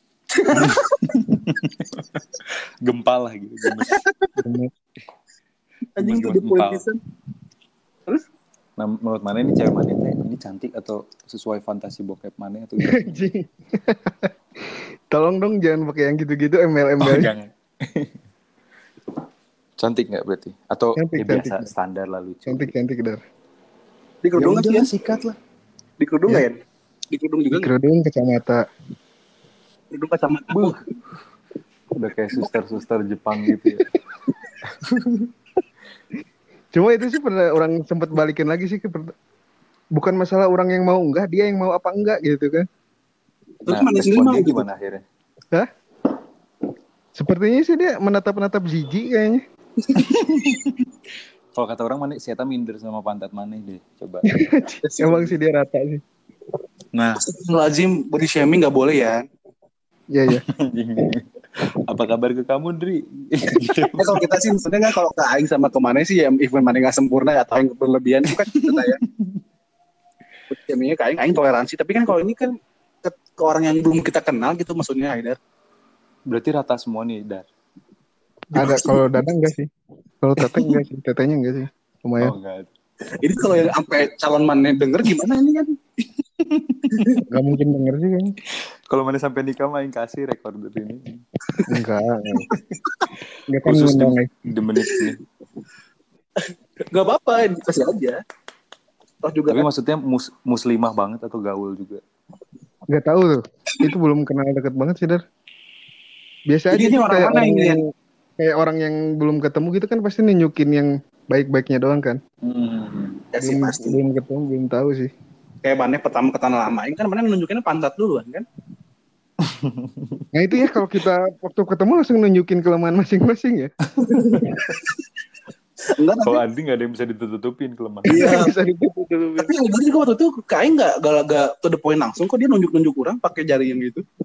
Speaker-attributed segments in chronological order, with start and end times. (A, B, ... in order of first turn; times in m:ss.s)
0:00.3-0:01.2 A
0:00.5-0:04.0 B
0:04.4-0:04.7 C
0:06.0-0:07.0 A
0:06.0-0:06.8 B
0:08.8-0:13.2 B
0:12.8-0:17.3 C
0:17.0-0:18.1 B
0:19.8-0:22.7 B
0:21.0-0:21.7 C
0:22.4-0:23.2 C
0:24.2-0:24.9 A
0:24.3-0:25.4 B
0:26.0-0:26.6 A
0:27.1-0:27.7 A
0:27.5-0:28.6 C
0:29.9-0:30.8 A
0:31.9-0:33.9 B
0:33.5-0:33.8 C
0:34.7-0:35.3 B
0:36.7-0:39.1 C
0:39.9-0:42.7 C
0:43.7-0:44.6 A
0:43.7-0:45.0 B
0:47.1-0:49.4 C
0:49.9-0:50.8 B
0:51.5-0:54.2 B
0:54.3-0:56.0 C
0:54.8-0:55.3 A
0:56.9-0:57.2 B
0:57.2-0:59.2 A
1:00.1-1:00.4 C
1:00.3-1:04.2 B
1:04.0-1:09.0 A
1:08.5-1:09.4 B
1:10.5-1:15.4 A
1:16.3-1:17.4 B
1:18.5-1:19.7 C
1:18.6-1:19.0 A
1:20.2-1:22.3 C
1:22.2-1:22.7 B
1:23.2-1:25.8 A
1:26.4-1:27.2 B
1:27.0-1:27.2 A
1:27.3-1:28.3 C
1:28.5-1:31.2 B
1:31.7-1:32.5 C
1:33.5-1:34.3 C
1:33.6-1:35.2 B
1:36.4-1:38.2 A
1:39.2-1:39.6 A
1:39.5-1:42.0 B
1:42.9-1:45.2 C
1:46.5-1:52.2 C
1:46.7-1:47.8 A
1:52.4-1:53.2 B
1:53.3-1:54.0 A
1:53.4-1:55.1 C
1:55.6-1:58.4 A
1:59.4-2:00.2 B
2:00.3-2:03.7 C
2:03.9-2:04.2 B
2:04.1-2:04.9 A
2:05.8-2:06.4 A
2:06.2-2:08.2 B
2:08.0-2:09.5 C
2:08.1-2:08.5 A
2:09.4-2:14.0 A